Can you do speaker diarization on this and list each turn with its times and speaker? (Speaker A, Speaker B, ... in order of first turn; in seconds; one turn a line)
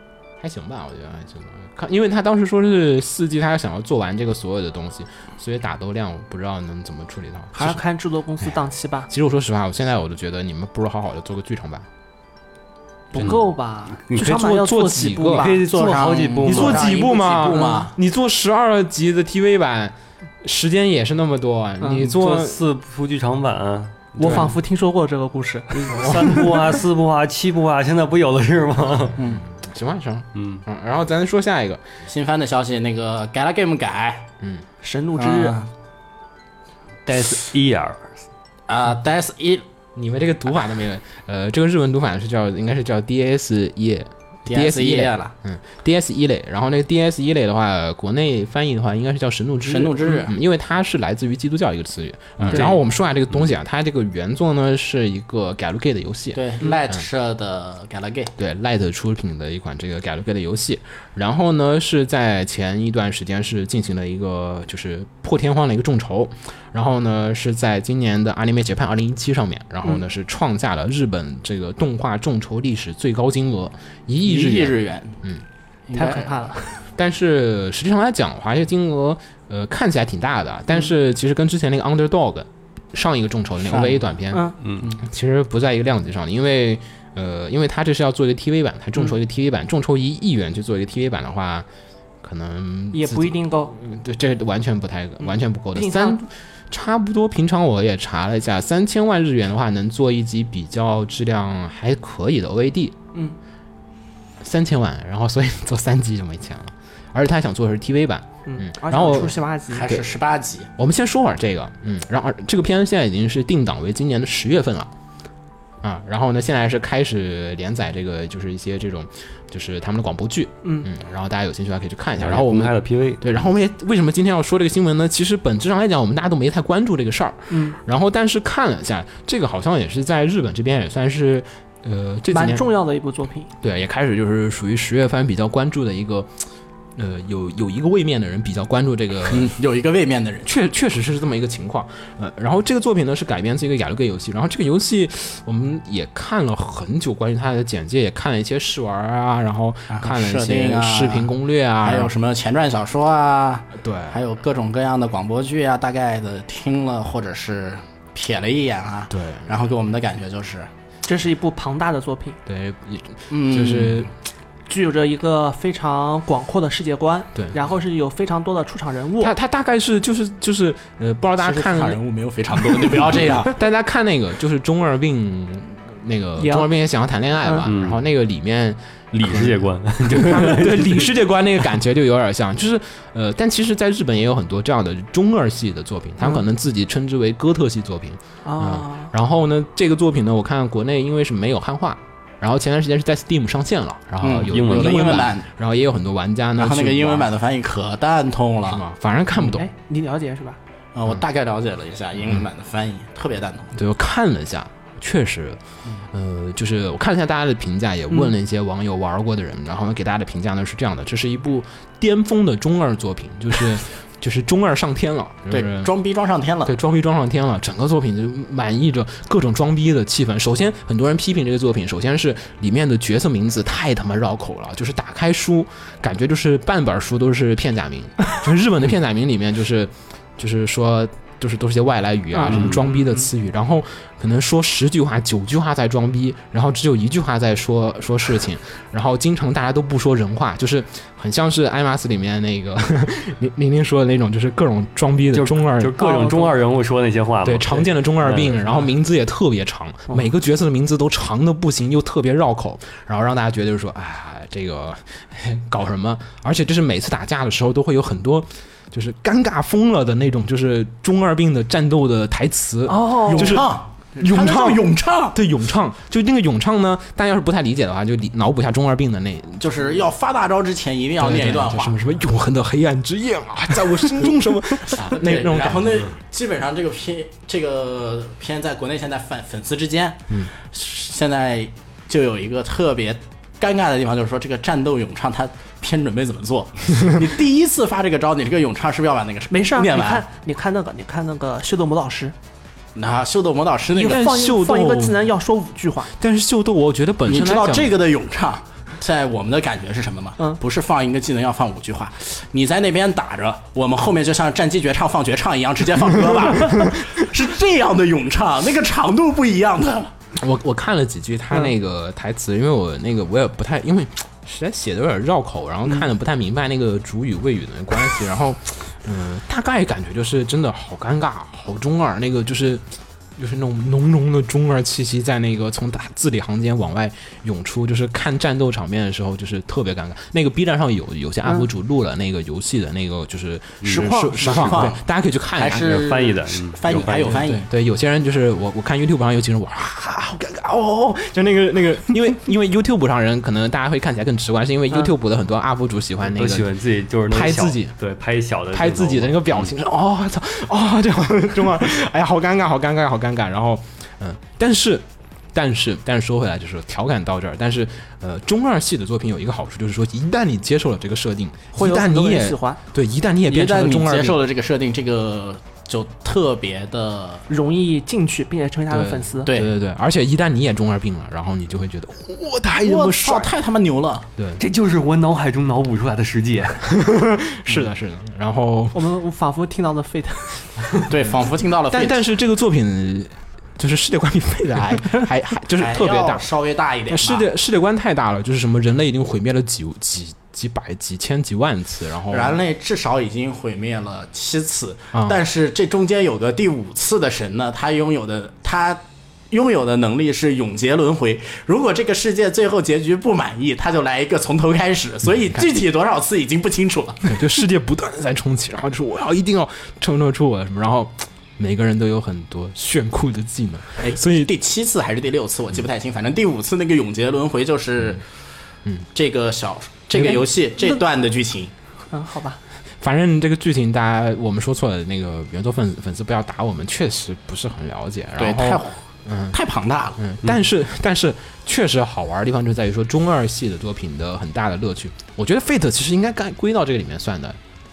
Speaker A: 0.4-7.8
Speaker B: 7.5-9.1
Speaker A: 9.1-11.9
Speaker B: 13.1-15.7
Speaker C: 14.1-14.3
Speaker A: 14.2-15.5
Speaker C: 15.3-17.0
Speaker D: 15.7-18.0
Speaker A: 16.4-22.6
Speaker B: 21.8-22.1
Speaker C: 21.9-24.5
Speaker B: 24.2-26.6
Speaker A: 24.2-24.5
Speaker C: 25.8-29.2
Speaker A: 25.9-26.4
Speaker A: 29.1-31.8
Speaker D: 29.2-29.4
Speaker C: 30.4-30.6
Speaker D: 32.1-34.3
Speaker B: 34.8-35.6
Speaker D: 35.2-35.7
Speaker C: 37.1-38.1
Speaker D: 38.7-39.6
Speaker A: 40.0-57.0
Speaker D: 44.5-45.3
Speaker D: 49.6-50.3
Speaker D: 52.4-52.8
Speaker D: 56.3-58.3
Speaker A: 58.4-75.5
Speaker D: 74.2-75.2
Speaker D: 75.9-76.3
Speaker B: 75.9-76.8
Speaker A: 77.0-91.7
Speaker D: 83.6-84.0
Speaker C: 84.6-84.9
Speaker A: 92.2-103.0
Speaker B: 92.9-93.7
Speaker B: 95.7-96.3
Speaker A: 104.4-109.3
Speaker B: 108.5-110.1
Speaker D: 109.1-110.7
Speaker A: 110.8-114.9
Speaker A: 115.8-132.7
Speaker B: 120.6-120.9
Speaker C: 122.2-123.3
Speaker B: 127.5-127.8
Speaker B: 132.3-133.5
Speaker A: 133.6-136.3
Speaker A: 137.0-139.5
Speaker D: 139.3-140.5
Speaker A: 140.4-152.1
Speaker D: 149.9-160.7
Speaker A: 153.7-154.2
Speaker A: 159.1-159.6
Speaker B: 161.1-162.4
Speaker A: 162.5-164.1
Speaker D: 163.3-164.1
Speaker B: 164.7-169.3
Speaker A: 167.3-167.7
Speaker A: 169.2-172.0
Speaker D: 171.4-173.6
Speaker A: 172.7-197.3
Speaker B: 176.4-176.7
Speaker C: 177.7-178.0
Speaker C: 179.1-181.1
Speaker B: 188.4-189.1
Speaker D: 194.2-195.5
Speaker C: 194.5-195.3
Speaker D: 196.6-198.8
Speaker A: 198.7-199.7
Speaker B: 199.4-200.6
Speaker D: 200.9-203.7
Speaker A: 203.8-215.9
Speaker D: 215.5-216.7
Speaker A: 216.7-246.0
Speaker B: 232.3-233.3
Speaker C: 232.5-232.8
Speaker C: 245.3-248.7
Speaker B: 246.0-246.6
Speaker A: 247.4-270.0
Speaker B: 262.9-263.6
Speaker D: 263.3-265.4
Speaker D: 269.6-272.0
Speaker A: 271.2-276.1
Speaker D: 274.9-290.2
Speaker B: 289.5-292.3
Speaker D: 292.9-294.3
Speaker A: 293.9-295.3
Speaker B: 294.0-296.1
Speaker A: 296.2-298.0
Speaker D: 297.3-310.1
Speaker A: 310.4-322.8
Speaker A: 323.4-336.0
Speaker D: 333.9-335.0
Speaker B: 333.9-334.5
Speaker D: 335.6-337.7
Speaker C: 335.8-337.5
Speaker A: 336.9-346.7
Speaker C: 346.3-349.7
Speaker A: 347.3-347.9
Speaker A: 348.7-364.4
Speaker B: 361.7-362.8
Speaker D: 363.5-367.5
Speaker B: 367.5-369.5
Speaker A: 368.9-373.5
Speaker D: 369.5-369.7
Speaker D: 372.8-374.3
Speaker A: 374.4-374.6
Speaker C: 374.6-376.8
Speaker A: 376.9-379.0
Speaker B: 378.9-380.8
Speaker D: 381.1-382.2
Speaker A: 381.9-386.5
Speaker D: 385.7-387.5
Speaker A: 387.1-392.6
Speaker D: 392.3-407.4
Speaker A: 395.1-395.4
Speaker A: 407.3-414.5
Speaker D: 414.0-418.2
Speaker D: 419.1-421.7
Speaker A: 420.1-420.5
Speaker B: 422.1-422.6
Speaker A: 423.0-429.6
Speaker D: 428.4-429.0
Speaker D: 429.5-430.2
Speaker A: 430.2-437.6